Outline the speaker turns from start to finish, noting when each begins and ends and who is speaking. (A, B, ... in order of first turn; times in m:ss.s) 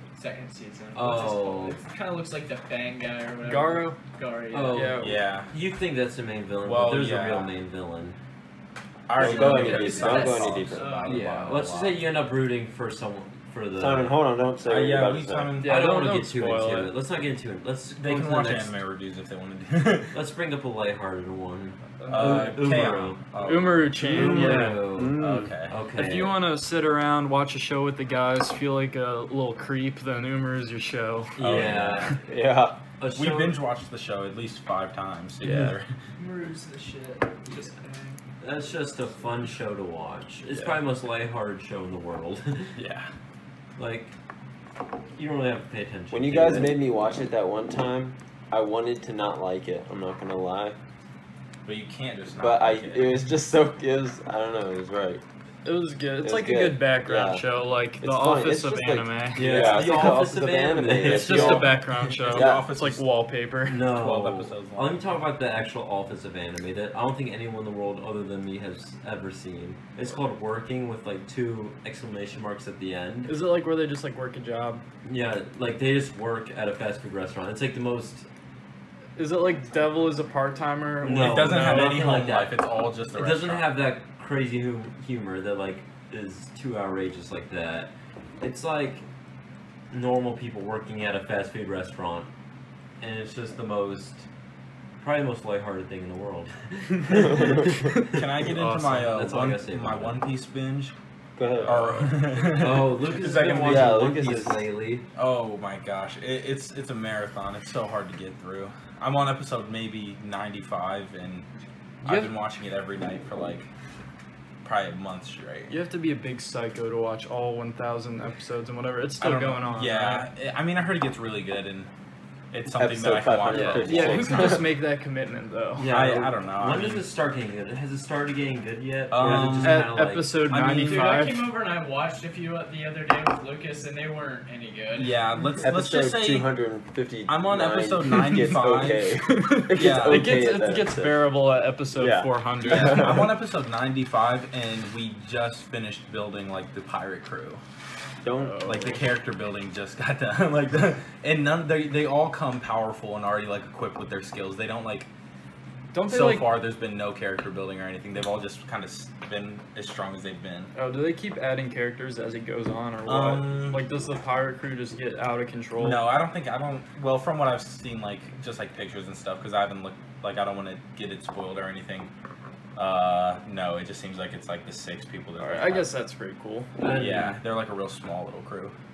0:00.2-0:05.0 A
0:01.0-0:01.8 B
0:03.4-0:04.0 C
0:04.5-0:08.2 B
0:04.7-0:05.2 C
0:05.0-0:05.5 D
0:06.6-0:07.5 D
0:09.1-0:12.0 D
0:09.2-0:11.1 E
0:09.2-0:10.5 B
0:09.2-0:11.3 A
0:11.0-0:14.2 B
0:13.8-0:15.6 E
0:14.6-0:15.9 D
0:15.6-0:16.9 C
0:15.6-0:18.8 B
0:18.0-0:20.2 D
0:20.1-0:23.3 B
0:22.0-0:22.6 C
0:22.1-0:25.8 D
0:23.4-0:24.9 C
0:24.0-0:26.4 B
0:24.0-0:25.6 E
0:26.0-0:31.6 C
0:31.4-0:32.2 D
0:31.4-0:32.2 B
0:32.2-0:32.8 E
0:33.0-0:33.6 B
0:33.1-0:35.9 D
0:35.4-0:35.7 C
0:36.2-0:38.2 A
0:38.4-0:42.8 B
0:42.8-0:43.1 D
0:43.8-0:44.1 B
0:45.2-0:46.8 B
0:46.1-0:50.8 E
0:51.6-0:53.3 D
0:52.4-0:55.2 E
0:55.6-1:00.2 C
0:56.2-0:57.5 E
0:58.0-1:02.8 E
0:59.4-1:01.8 B
0:59.5-0:59.8 D
1:01.0-1:03.8 C
1:01.8-1:03.1 D
1:03.7-1:13.4 B
1:03.8-1:05.0 D
1:13.3-1:14.8 C
1:15.0-1:18.3 B
1:19.2-1:22.0 C
1:21.0-1:29.0 B
1:21.1-1:23.7 D
1:29.9-1:32.3 B
1:33.0-1:34.2 B
1:35.0-1:37.6 B
1:38.1-1:40.9 D
1:38.1-1:40.2 B
1:41.4-1:42.1 E
1:41.6-1:44.2 D
1:42.4-1:45.1 B
1:43.5-1:44.6 E
1:45.2-1:51.5 D
1:52.0-1:53.7 D
1:52.0-1:52.3 C
1:54.6-1:55.8 D
1:55.7-2:00.3 C
1:59.2-2:01.9 D
2:02.5-2:04.6 D
2:02.7-2:04.7 E
2:03.5-2:05.9 C
2:03.5-2:04.0 B
2:05.8-2:10.4 B
2:05.8-2:07.1 D
2:09.1-2:11.3 D
2:09.3-2:11.5 C
2:10.8-2:15.2 A
2:15.0-2:16.5 D
2:15.6-2:21.3 E
2:17.3-2:19.1 D
2:18.1-2:18.5 C
2:19.2-2:23.3 C
2:19.7-2:20.5 D
2:21.9-2:23.3 E
2:22.6-2:27.6 D
2:28.2-2:28.9 E
2:28.3-2:29.0 C
2:28.6-2:35.1 D
2:35.9-2:36.6 C
2:36.0-2:40.7 D
2:40.8-2:46.0 C
2:43.1-2:43.8 D
2:45.8-2:52.1 D
2:52.8-2:55.9 D
2:55.4-2:56.7 C
2:56.8-2:57.4 B
2:56.8-2:58.8 D